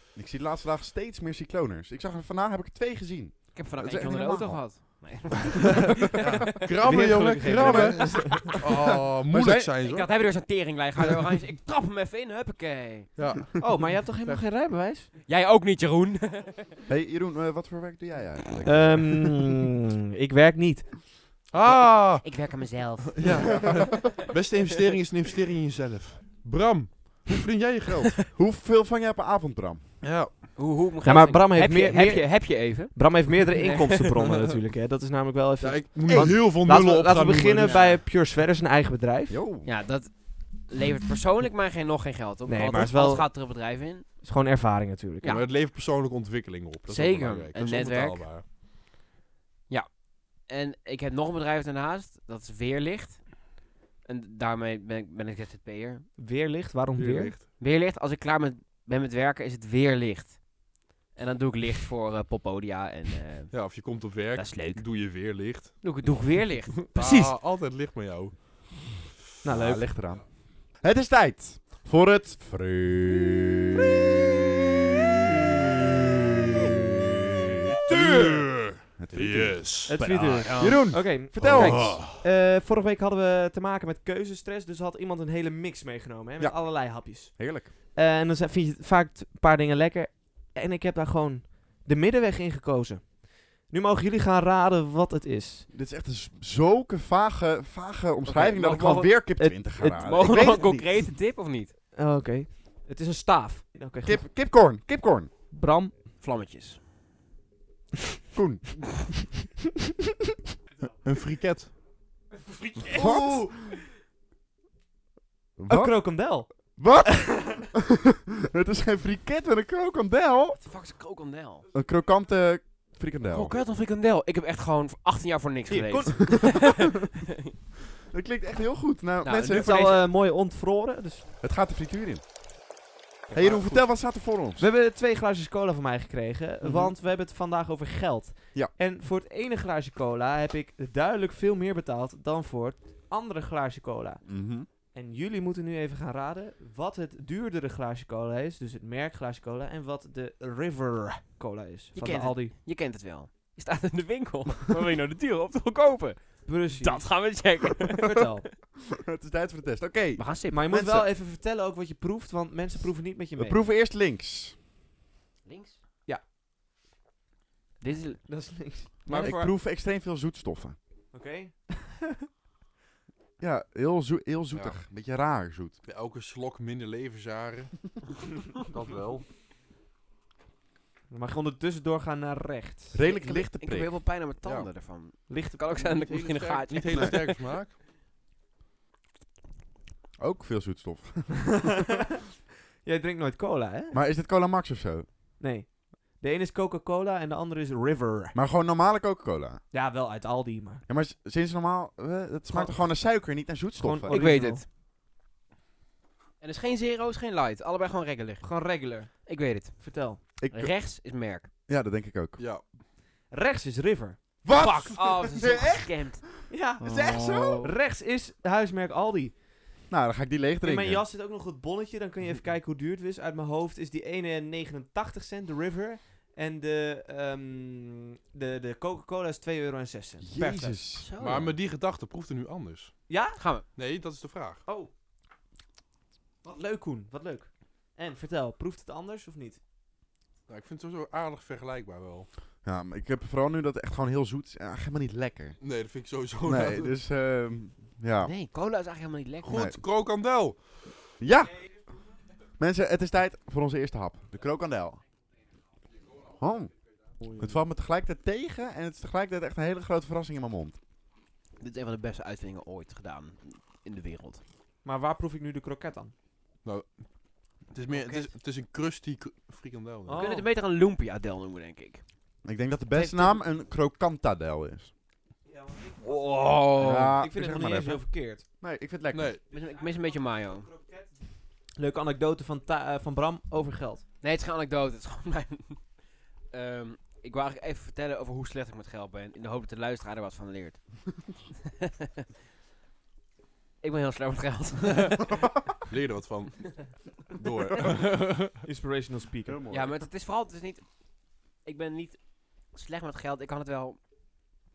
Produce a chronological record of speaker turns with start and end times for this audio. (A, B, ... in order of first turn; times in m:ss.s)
0:00.1-0:05.0 A
0:03.5-0:06.6 B
0:06.0-0:10.1 C
0:06.8-0:08.6 D
0:07.4-0:09.7 A
0:09.8-0:13.1 B
0:13.2-0:14.4 C
0:13.6-0:15.1 D
0:15.2-0:16.7 B
0:16.9-0:19.4 A
0:18.6-0:21.0 D
0:21.5-0:22.3 C
0:21.7-0:23.7 B
0:23.1-0:28.1 C
0:23.4-0:24.1 A
0:28.3-0:29.8 A
0:30.0-0:30.5 C
0:30.6-0:34.1 B
0:31.0-0:39.4 D
0:35.6-0:37.9 C
0:37.6-0:38.0 B
0:39.3-0:39.7 A
0:39.6-0:44.0 B
0:42.5-0:43.3 D
0:44.2-0:45.3 D
0:45.2-0:48.4 C
0:46.9-0:48.3 B
0:49.7-0:53.5 B
0:54.0-0:56.1 B
0:56.2-0:57.3 D
0:56.9-0:57.4 C
0:57.6-1:00.4 B
1:01.1-1:03.8 B
1:03.5-1:06.2 C
1:04.3-1:04.8 B
1:05.8-1:07.3 B
1:06.9-1:08.9 C
1:09.4-1:09.9 D
1:09.5-1:13.9 A
1:17.9-1:18.6 D
1:17.9-1:20.6 C
1:19.0-1:19.7 A
1:19.9-1:35.7 D
1:20.0-1:20.8 B
1:20.6-1:22.0 A
1:21.4-1:22.2 C
1:26.4-1:27.7 A
1:35.7-1:40.9 A
1:38.2-1:39.1 B
1:38.7-1:40.1 D
1:39.9-1:41.7 B
1:41.9-1:44.2 D
1:44.0-1:45.3 A
1:45.5-1:45.9 D
1:46.2-1:46.8 B
1:48.3-1:48.8 A
1:51.0-1:51.7 C
1:52.4-1:53.1 B
1:52.9-1:53.7 D
1:52.9-1:53.7 A
1:55.6-2:00.6 A
1:55.7-1:57.6 D
2:00.6-2:01.6 B
2:01.7-2:03.6 A
2:03.3-2:07.5 B
2:05.7-2:06.7 D
2:08.1-2:09.7 A
2:09.2-2:10.0 B
2:09.5-2:11.2 D
2:11.4-2:12.2 A
2:13.3-2:14.6 A
2:14.6-2:24.2 D
2:24.2-2:24.7 A
2:24.8-2:32.5 D
2:31.9-2:38.4 B
2:36.4-2:37.2 D
2:38.0-2:38.4 D
2:38.9-2:41.1 A
2:40.2-2:40.6 B
2:40.5-2:43.6 D
2:43.4-2:44.6 A
2:45.4-2:45.8 B
2:47.8-2:48.2 B
2:48.3-2:49.5 D
2:49.1-2:50.8 A
2:51.1-2:52.1 D
2:53.4-2:55.8 A
2:55.8-2:58.0 C
2:58.6-2:59.2 C
3:01.1-3:03.0 D
3:02.9-3:04.0 A
3:03.0-3:07.4 B
3:05.3-3:06.3 D
3:06.2-3:07.7 C
3:10.2-3:11.8 A
3:11.5-3:12.0 D
3:12.8-3:14.0 D
3:13.9-3:15.1 A
3:15.4-3:18.4 D
3:18.3-3:19.6 A
3:19.7-3:20.8 D
3:20.9-3:24.2 A
3:22.5-3:22.8 D
3:23.8-3:24.6 D
3:24.1-3:24.6 B
3:26.4-3:28.6 B
3:28.4-3:30.2 D
3:29.2-3:31.5 B
3:30.4-3:30.7 A
3:31.7-3:32.4 A
3:32.4-3:32.6 C
3:33.3-3:34.2 D
3:34.4-3:37.7 A
3:34.5-3:36.2 B
3:36.5-3:39.4 D
3:36.8-3:37.7 B
3:39.9-3:41.0 A
3:40.6-3:50.8 D
3:50.2-3:51.5 A
3:51.0-3:51.5 B
3:51.2-3:53.1 C
3:53.1-3:53.4 D
3:53.4-3:53.6 B
3:53.7-3:54.6 C
3:56.4-3:59.6 D
4:00.5-4:02.3 C
4:02.6-4:05.6 A
4:05.6-4:06.9 C
4:06.4-4:08.3 A
4:08.2-4:09.5 B
4:09.4-4:10.7 C
4:09.5-4:09.8 A
4:11.2-4:11.7 A
4:12.6-4:15.0 A
4:16.3-4:20.8 A
4:21.6-4:24.4 B
4:24.8-4:26.1 D
4:26.6-4:27.0 C
4:27.7-4:30.2 C
4:27.9-4:28.3 B
4:30.1-4:30.4 D
4:30.1-4:32.0 B
4:32.4-4:34.9 A
4:32.9-4:33.4 B
4:35.5-4:38.4 D
4:36.0-4:37.2 B
4:36.8-4:39.4 A
4:39.1-4:39.4 C
4:39.5-4:40.7 B
4:39.5-4:41.2 D
4:41.8-4:44.0 D
4:44.2-4:45.8 B
4:46.5-4:50.8 B
4:51.8-4:52.1 B
4:53.8-4:55.4 B
4:55.9-4:58.6 C
4:58.6-4:59.6 D
4:59.4-5:00.1 A
4:59.7-5:00.8 B
5:01.6-5:04.0 B